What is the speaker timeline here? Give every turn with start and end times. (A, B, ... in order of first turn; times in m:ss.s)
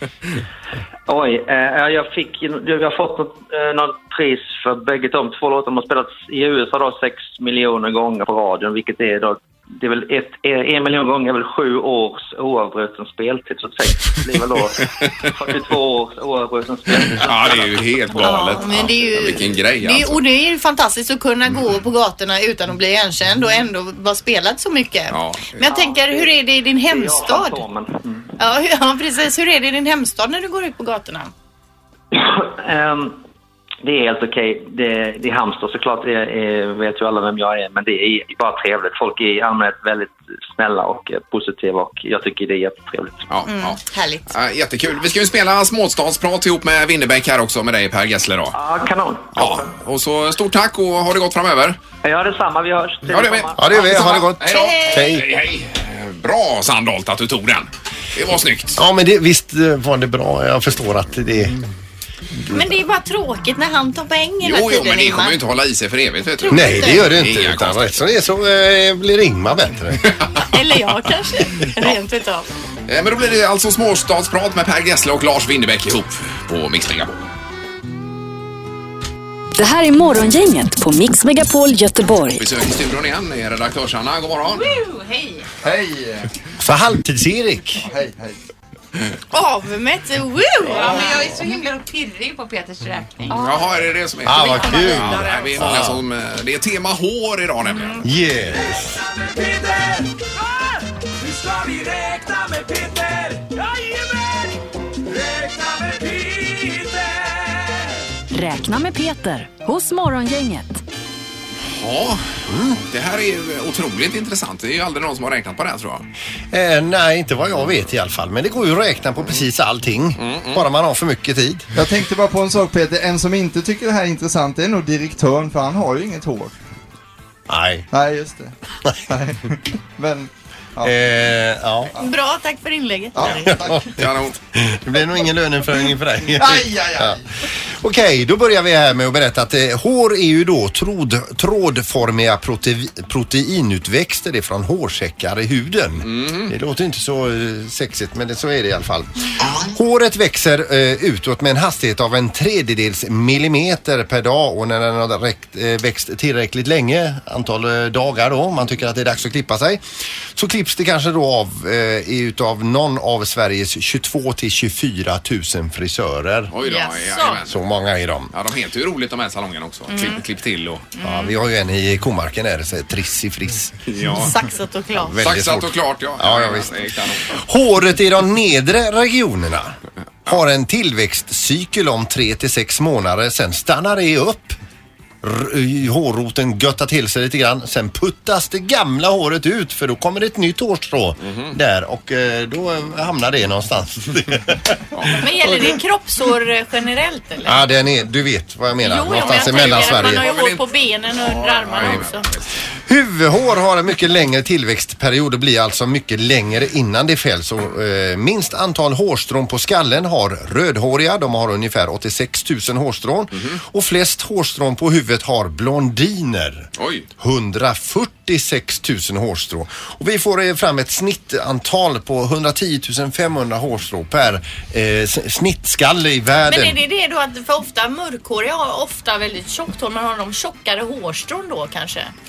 0:01.1-0:19.5 A
0:17.1-0:20.2 B
0:18.2-0:27.6 C
0:25.1-0:25.6 B
0:25.6-0:28.3 A
0:28.4-0:31.3 C
0:32.1-0:33.2 A
0:33.8-0:43.3 A
0:43.3-0:48.6 B
0:43.5-0:44.3 C
0:48.5-0:49.7 A
0:49.3-0:51.8 B
0:52.0-0:54.3 A
0:53.1-0:58.8 B
0:53.6-0:55.2 D
0:53.7-0:55.2 C
0:58.8-1:01.6 D
1:02.5-1:05.4 C
1:04.4-1:07.8 B
1:06.4-1:07.1 C
1:06.5-1:10.0 D
1:10.1-1:10.4 B
1:10.5-1:12.5 C
1:12.9-1:17.1 B
1:19.6-1:22.4 E
1:22.3-1:24.7 B
1:24.5-1:25.5 F
1:25.6-1:26.3 G
1:26.6-1:27.8 D
1:27.8-1:28.4 G
1:29.3-1:31.1 C
1:30.6-1:33.7 F
1:33.3-1:38.0 B
1:34.2-1:36.0 D
1:34.4-1:35.7 F
1:38.0-1:39.0 D
1:39.3-1:39.9 H
1:42.8-1:43.8 H
1:45.1-1:46.9 H
1:48.3-1:50.8 E
1:51.7-1:56.0 B
1:52.5-1:52.8 D
1:56.5-2:01.7 D
2:00.2-2:00.6 B
2:01.8-2:06.5 G
2:07.5-2:07.9 D
2:07.9-2:08.5 G
2:09.1-2:10.9 G
2:10.8-2:11.9 D
2:12.0-2:13.6 C
2:13.5-2:39.8 D
2:14.0-2:14.4 B
2:16.3-2:17.2 G
2:26.0-2:26.5 B
2:40.3-2:46.5 D
2:46.5-2:47.6 B
2:46.6-2:47.4 C
2:47.4-2:48.3 D
2:48.3-2:50.9 B
2:49.9-2:50.2 C
2:51.0-2:51.3 C
2:51.0-2:53.7 D
2:53.8-2:54.3 B
2:54.1-2:55.2 C
2:55.0-2:56.7 D
2:55.2-2:57.3 B
2:57.3-3:04.6 D
3:05.2-3:14.8 D
3:11.3-3:11.5 B
3:15.2-3:17.6 C
3:17.4-3:20.2 D
3:18.8-3:22.2 C
3:19.1-3:20.6 B
3:21.2-3:22.4 B
3:22.9-3:46.8 D
3:36.8-3:37.1 B
3:46.5-3:52.1 C